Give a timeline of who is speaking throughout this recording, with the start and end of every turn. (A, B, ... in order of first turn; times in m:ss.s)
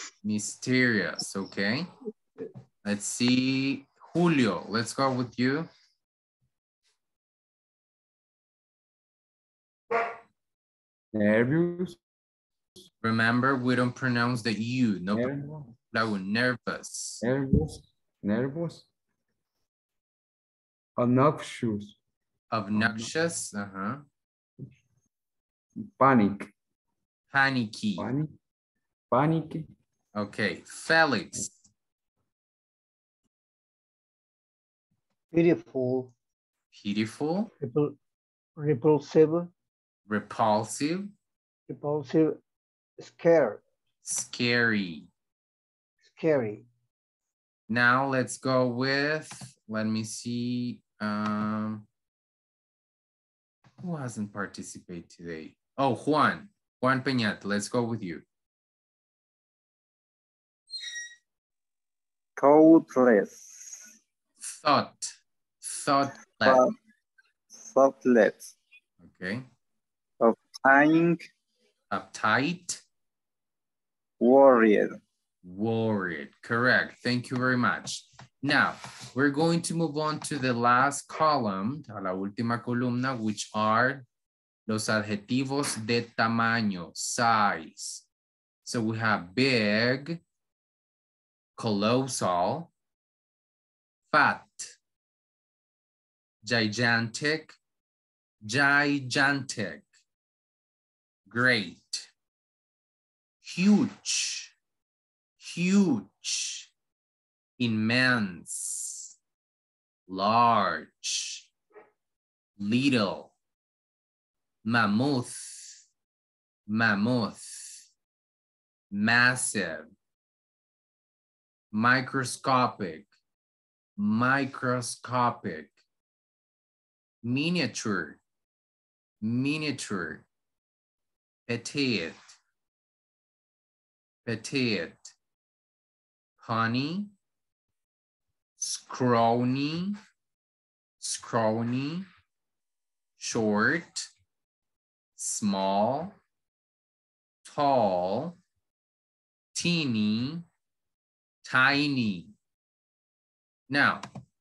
0:00.2-0:01.9 A
0:02.8-0:05.7 A
0:11.1-0:12.0 B
0:13.0-0:15.3 A
0:15.2-0:15.7 B
0:15.9-0:17.2 A
0:17.2-0:18.9 B
0:21.0-0:22.0 B
0:22.5-0:24.0 A
0:22.8-0:23.1 B
0:25.8-0:26.5 B
0:27.3-0:28.1 A
0:28.0-0:28.3 B
0:29.1-0:29.7 B
0:30.2-0:31.5 A
0:35.3-0:36.1 C
0:36.7-0:37.5 A
0:37.6-0:38.0 C
0:38.6-0:39.5 C
0:40.1-0:41.1 A
0:41.7-0:42.4 C
0:43.0-0:43.6 C
0:44.0-0:45.1 A
0:46.0-0:46.6 C
0:47.7-0:51.9 A
0:53.8-0:58.2 A
1:02.4-1:03.9 D
1:04.4-1:06.6 A
1:06.4-1:06.7 D
1:07.5-1:08.6 D
1:09.0-1:09.5 A
1:10.2-1:11.3 D
1:11.9-1:12.8 A
1:14.2-1:15.0 D
1:15.4-1:24.0 A
1:24.7-1:28.0 A
1:28.6-1:30.2 A
1:31.6-1:32.7 A
1:34.1-1:34.7 A
1:36.4-1:37.6 A
1:38.4-1:39.9 A
1:41.3-1:42.1 A
1:43.4-1:44.5 A
1:45.4-1:46.7 A
1:47.6-1:49.1 A
1:50.1-1:51.5 A
1:52.6-1:53.3 A
1:54.6-1:55.8 A
1:56.7-1:57.9 A
1:58.9-1:59.9 A
2:01.7-2:03.1 A
2:04.0-2:05.8 A
2:07.2-2:08.2 A
2:09.2-2:10.2 A
2:11.5-2:12.2 A
2:14.2-2:15.1 A
2:16.4-2:17.1 A
2:18.6-2:20.0 A
2:21.0-2:22.1 A
2:23.2-2:24.1 A
2:25.2-2:26.2 A
2:27.4-2:28.4 A
2:29.5-2:30.5 A
2:31.4-2:32.3 A
2:33.7-2:34.0 A